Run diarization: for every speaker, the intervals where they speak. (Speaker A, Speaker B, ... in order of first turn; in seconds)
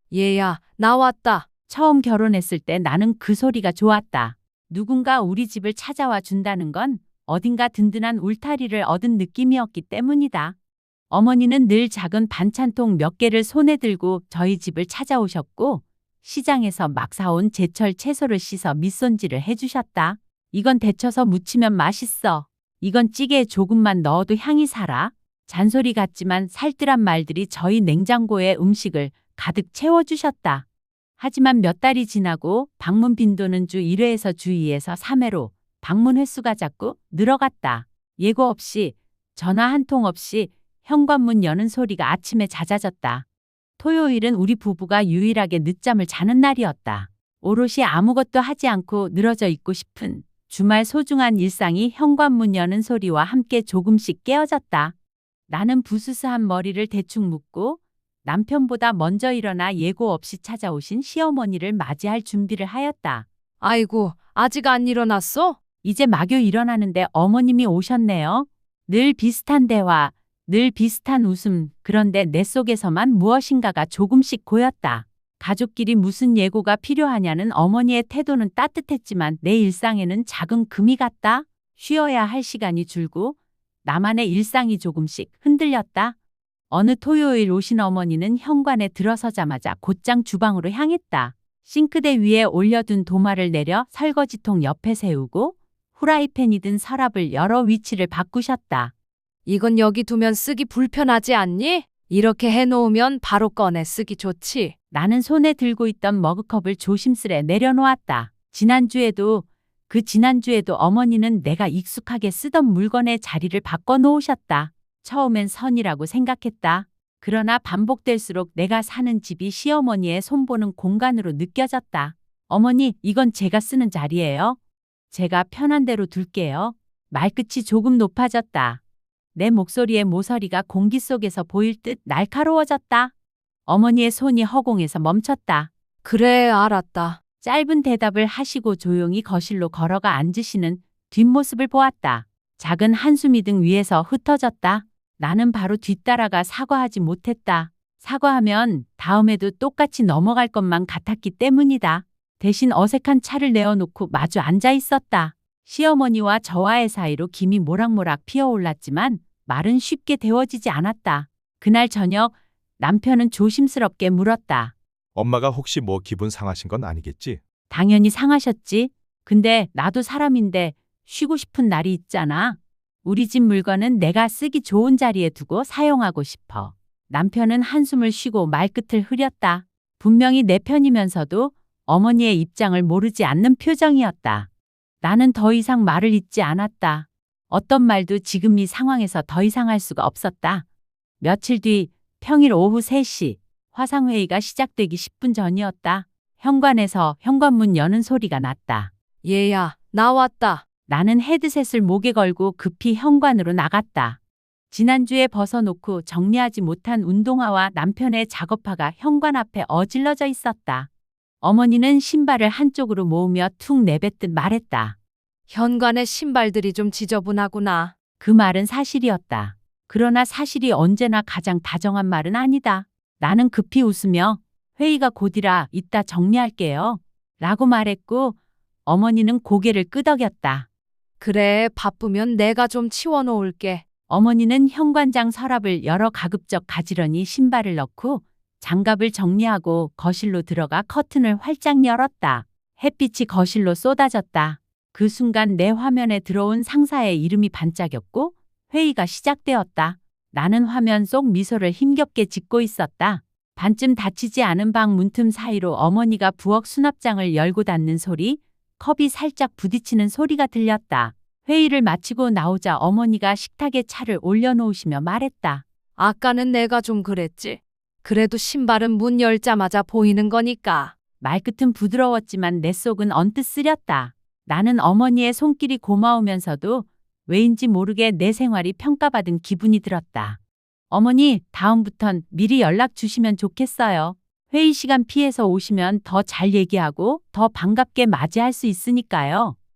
Speaker A: 0.1-1.5, 63.6-65.6, 99.5-104.7, 136.0-137.2, 199.2-200.6, 215.5-217.9, 231.2-233.8, 265.9-270.9
Speaker B: 1.7-10.6, 11.1-30.6, 31.2-43.2, 43.8-54.9, 55.5-63.3, 65.8-86.2, 86.7-98.9, 104.9-124.6, 125.1-128.8, 129.3-133.1, 133.7-135.7, 137.4-164.7, 167.7-184.5, 185.0-190.7, 191.2-198.9, 200.9-204.2, 204.7-210.9, 211.4-214.9, 218.2-230.7, 234.1-265.6, 271.2-280.4, 280.9-289.6
Speaker C: 165.1-167.4